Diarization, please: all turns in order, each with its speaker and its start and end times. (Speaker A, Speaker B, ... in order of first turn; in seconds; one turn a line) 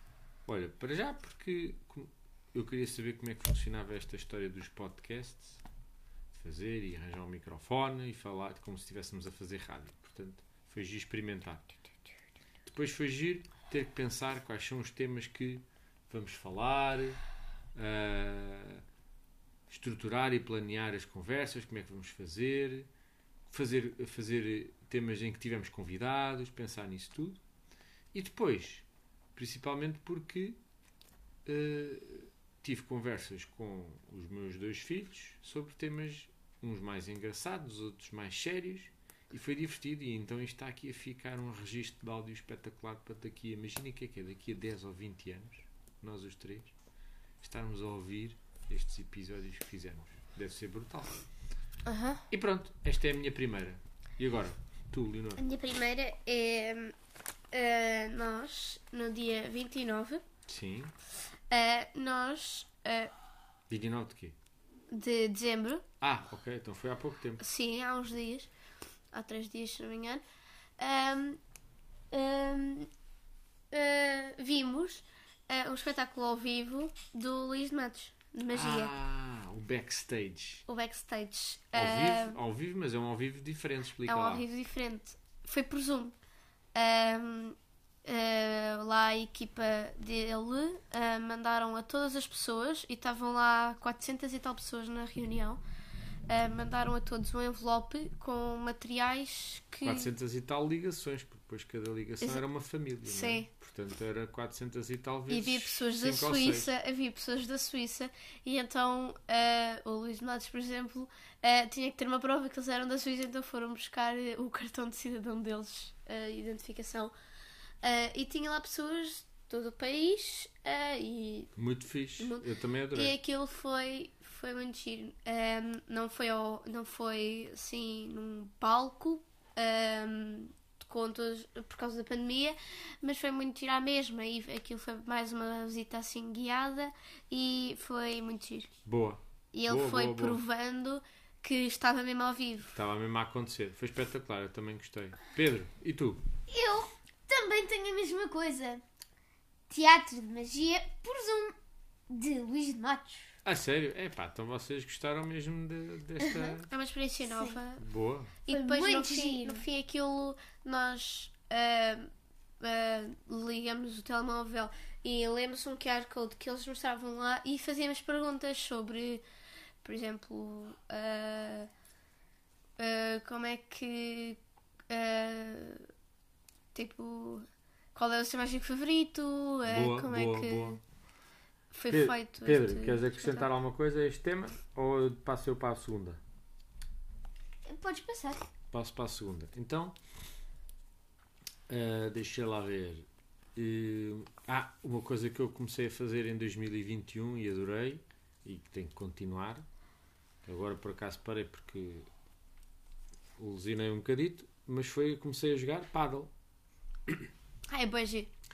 Speaker A: 0.5-5.6
Speaker A: 6.3-11.7
Speaker A: 12.6-17.2
Speaker A: 17.7-18.8
Speaker A: 19.7-22.9
Speaker A: 23.5-27.4
Speaker A: 28.1-30.6
Speaker A: 31.4-46.7
Speaker A: 47.4-51.2
Speaker B: 51.9-52.2
Speaker A: 52.3-55.4
Speaker B: 55.4-56.9
Speaker B: 57.5-60.2
Speaker A: 60.5-60.9
Speaker B: 61.5-63.1
Speaker A: 63.7-64.3
Speaker B: 64.9-65.8
Speaker A: 66.0-67.4
Speaker B: 67.4-68.5
Speaker B: 69.1-70.2
Speaker B: 70.8-71.4
Speaker B: 72.1-72.9
Speaker B: 73.7-78.9
Speaker A: 78.5-80.6
Speaker B: 80.7-82.4
Speaker A: 81.7-84.5
Speaker B: 84.0-86.1
Speaker B: 86.7-95.6
Speaker B: 96.3-100.1
Speaker A: 99.8-106.7
Speaker B: 103.0-103.5
Speaker B: 105.3-117.1
Speaker B: 117.8-121.5
Speaker A: 121.5-123.2
Speaker B: 122.9-138.7
Speaker A: 138.8-140.4
Speaker B: 139.5-142.7
Speaker A: 142.7-146.2
Speaker C: 146.5-148.8
Speaker C: 149.7-151.5
Speaker C: 152.1-153.3
Speaker A: 153.4-156.7
Speaker C: 156.2-156.5
Speaker B: 156.6-157.8
Speaker C: 157.3-157.6
Speaker A: 157.8-158.4
Speaker B: 158.4-169.2
Speaker C: 158.5-159.7
Speaker B: 169.8-171.7
Speaker B: 172.8-175.9
Speaker B: 176.7-180.8
Speaker A: 179.6-180.8
Speaker B: 181.7-183.5
Speaker A: 181.9-186.2
Speaker C: 187.6-188.5
Speaker A: 188.7-189.9
Speaker A: 191.7-199.6
Speaker A: 200.4-202.1
Speaker A: 203.4-206.3
Speaker B: 207.7-208.3